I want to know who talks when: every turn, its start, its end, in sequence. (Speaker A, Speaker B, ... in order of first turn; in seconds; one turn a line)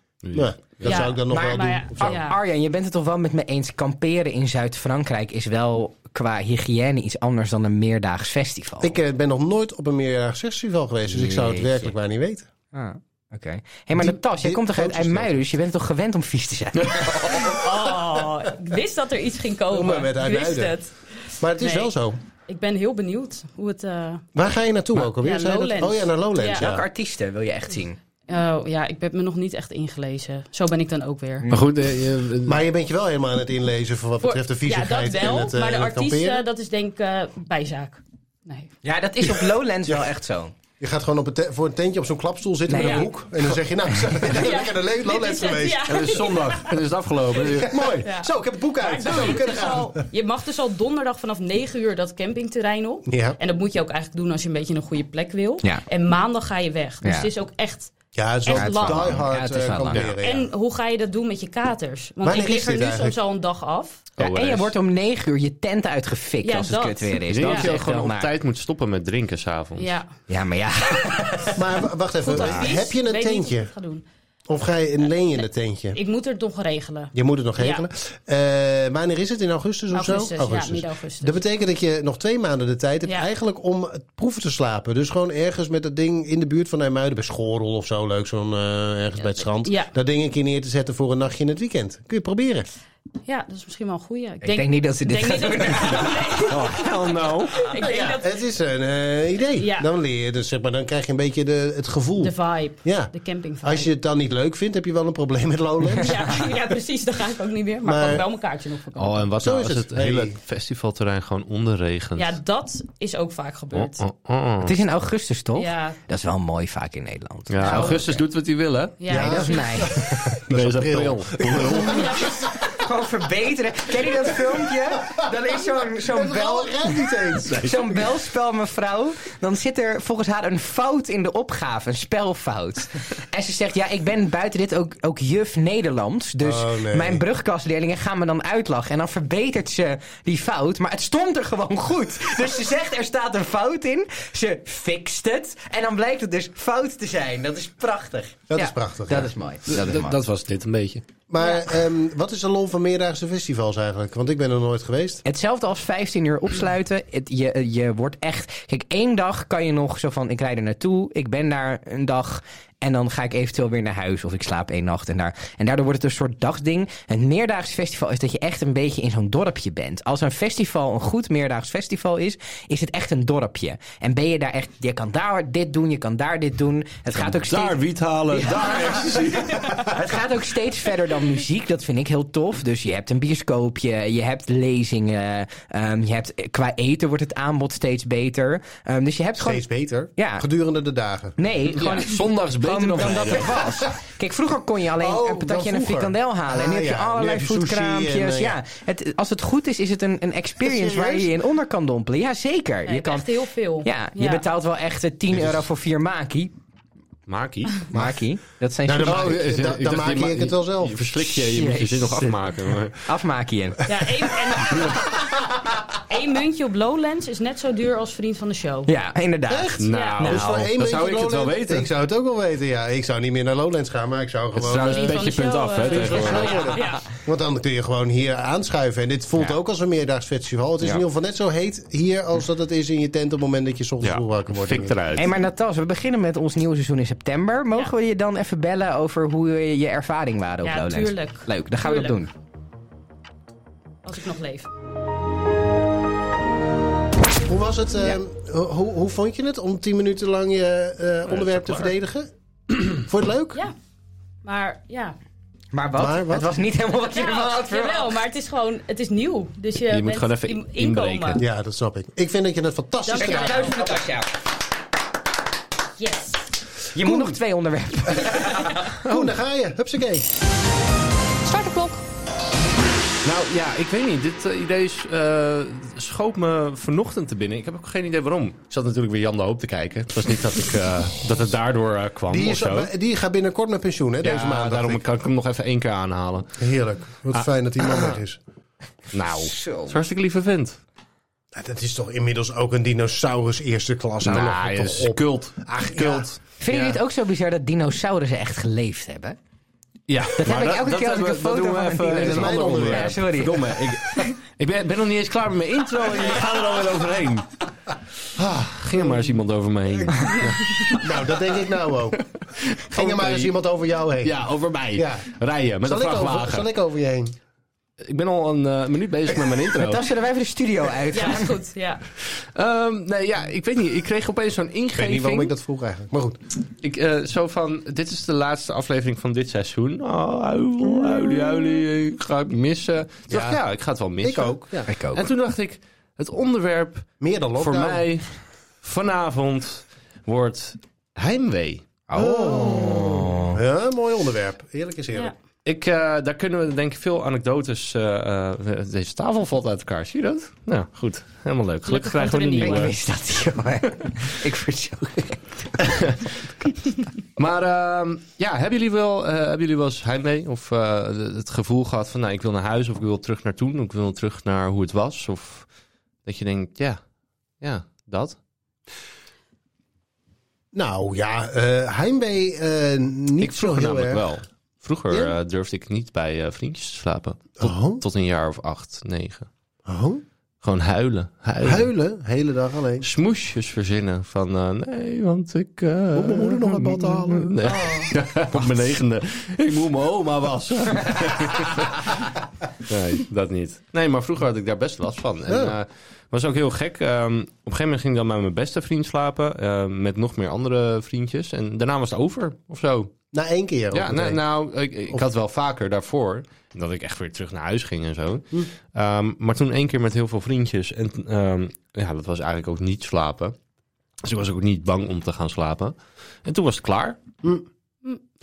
Speaker A: 0.2-1.1
Speaker B: 0.3-2.2
Speaker C: 0.8-2.4
Speaker D: 1.3-8.9
Speaker B: 8.8-12.5
Speaker D: 11.1-11.9
Speaker D: 12.7-17.4
Speaker B: 13.9-15.4
Speaker A: 16.8-17.6
Speaker C: 17.3-21.9
Speaker B: 19.7-20.8
Speaker B: 21.4-22.2
Speaker C: 22.5-24.2
Speaker B: 24.3-26.8
Speaker C: 25.2-26.7
Speaker D: 26.6-28.0
Speaker C: 28.3-31.5
Speaker D: 31.4-31.7
Speaker A: 31.5-32.6
Speaker B: 32.4-36.4
Speaker C: 34.2-38.7
Speaker D: 38.8-40.5
Speaker B: 39.2-40.1
Speaker B: 40.8-46.0
Speaker D: 42.7-43.1
Speaker C: 42.7-43.1
Speaker C: 44.2-46.7
Speaker A: 45.9-48.0
Speaker C: 47.4-57.9
Speaker B: 47.5-50.0
Speaker B: 53.1-53.4
Speaker D: 57.0-57.3
Speaker B: 58.1-60.5
Speaker C: 58.4-59.2
Speaker D: 58.5-60.0
Speaker A: 59.9-60.2
Speaker C: 60.2-64.1
Speaker B: 62.2-63.2
Speaker A: 64.2-64.7
Speaker D: 64.2-68.3
Speaker C: 66.4-67.7
Speaker A: 67.3-70.0
Speaker C: 69.8-70.1
Speaker D: 70.3-71.6
Speaker B: 71.5-73.7
Speaker C: 72.2-74.0
Speaker B: 74.5-76.0
Speaker C: 75.4-77.8
Speaker B: 77.1-92.7
Speaker C: 79.9-81.4
Speaker C: 89.6-89.9
Speaker C: 93.2-97.0
Speaker D: 94.4-96.4
Speaker A: 96.4-97.6
Speaker C: 97.5-98.3
Speaker B: 97.8-106.5
Speaker C: 99.6-99.9
Speaker C: 102.2-103.9
Speaker C: 106.0-109.3
Speaker B: 107.8-108.2
Speaker A: 109.0-112.4
Speaker B: 109.4-110.4
Speaker C: 112.2-114.0
Speaker A: 113.7-114.8
Speaker D: 114.6-118.2
Speaker C: 115.5-116.0
Speaker A: 117.5-119.0
Speaker C: 117.6-118.0
Speaker C: 119.0-119.8
Speaker B: 119.1-122.8
Speaker D: 119.1-120.3
Speaker A: 120.5-122.3
Speaker C: 121.8-122.3
Speaker D: 122.7-150.2
Speaker B: 125.0-128.1
Speaker B: 136.4-137.2
Speaker B: 148.5-149.3
Speaker A: 149.7-151.0
Speaker B: 151.3-155.2
Speaker D: 155.2-177.8
Speaker A: 177.1-179.9
Speaker D: 178.3-189.6
Speaker B: 189.4-191.4
Speaker D: 190.2-190.4
Speaker D: 191.4-203.3
Speaker A: 191.7-193.6
Speaker B: 193.6-193.9
Speaker B: 195.0-198.6
Speaker B: 200.6-201.3
Speaker C: 202.8-204.4
Speaker D: 203.8-206.5
Speaker A: 207.3-207.8
Speaker D: 207.9-209.3
Speaker B: 207.9-208.2
Speaker B: 208.8-211.3
Speaker A: 209.0-213.0
Speaker D: 211.4-212.4
Speaker D: 213.0-213.8
Speaker C: 213.8-215.1
Speaker C: 216.1-218.9
Speaker D: 218.8-220.6
Speaker B: 219.5-225.2
Speaker A: 219.8-221.9
Speaker C: 219.9-220.3
Speaker A: 224.5-226.8
Speaker C: 224.8-227.0
Speaker B: 225.9-234.9
Speaker A: 234.0-235.3
Speaker D: 235.1-242.3
Speaker C: 240.6-242.2
Speaker C: 244.0-244.7
Speaker B: 247.4-252.3
Speaker A: 251.3-251.9
Speaker B: 252.8-253.6
Speaker C: 254.4-255.2
Speaker D: 255.7-258.1
Speaker B: 256.0-256.5
Speaker C: 257.1-261.4
Speaker A: 259.9-261.4
Speaker B: 261.4-263.8
Speaker C: 263.1-264.0
Speaker D: 263.1-264.3
Speaker C: 266.0-266.5
Speaker D: 266.9-268.9
Speaker B: 267.0-267.4
Speaker B: 269.0-270.3
Speaker A: 269.0-269.3
Speaker A: 273.2-282.9
Speaker B: 282.3-285.0
Speaker A: 284.2-286.6
Speaker B: 286.6-288.4
Speaker A: 287.3-288.2
Speaker A: 289.1-290.8
Speaker D: 289.4-289.9
Speaker B: 291.5-296.3
Speaker A: 294.2-297.0
Speaker D: 296.6-299.4
Speaker A: 300.1-307.5
Speaker D: 300.4-303.8
Speaker B: 302.1-303.2
Speaker A: 308.4-311.0
Speaker B: 309.0-309.3
Speaker C: 310.4-310.9
Speaker B: 310.9-312.2
Speaker A: 312.4-313.5
Speaker B: 312.9-314.4
Speaker A: 314.2-316.7
Speaker B: 314.9-315.3
Speaker B: 315.8-317.3
Speaker A: 318.0-320.1
Speaker D: 319.8-321.5
Speaker C: 321.1-322.0
Speaker A: 322.2-325.5
Speaker B: 324.9-326.4
Speaker A: 326.8-341.9
Speaker B: 333.3-333.6
Speaker B: 334.2-334.9
Speaker D: 334.9-335.2
Speaker B: 337.2-338.0
Speaker D: 342.1-343.6
Speaker B: 342.1-345.3
Speaker A: 345.6-352.9
Speaker C: 351.8-352.9
Speaker D: 352.6-356.0
Speaker A: 355.9-356.3
Speaker A: 357.4-365.7
Speaker A: 366.2-367.0
Speaker A: 367.6-368.4
Speaker B: 370.7-374.2
Speaker A: 373.4-379.5
Speaker B: 377.6-378.0
Speaker B: 379.9-380.2
Speaker A: 380.6-381.9
Speaker B: 381.6-383.1
Speaker A: 383.0-392.3
Speaker B: 386.1-387.8
Speaker C: 387.6-388.1
Speaker A: 392.8-403.1
Speaker B: 395.5-395.8
Speaker B: 403.3-404.4
Speaker A: 403.9-413.5
Speaker A: 414.2-417.2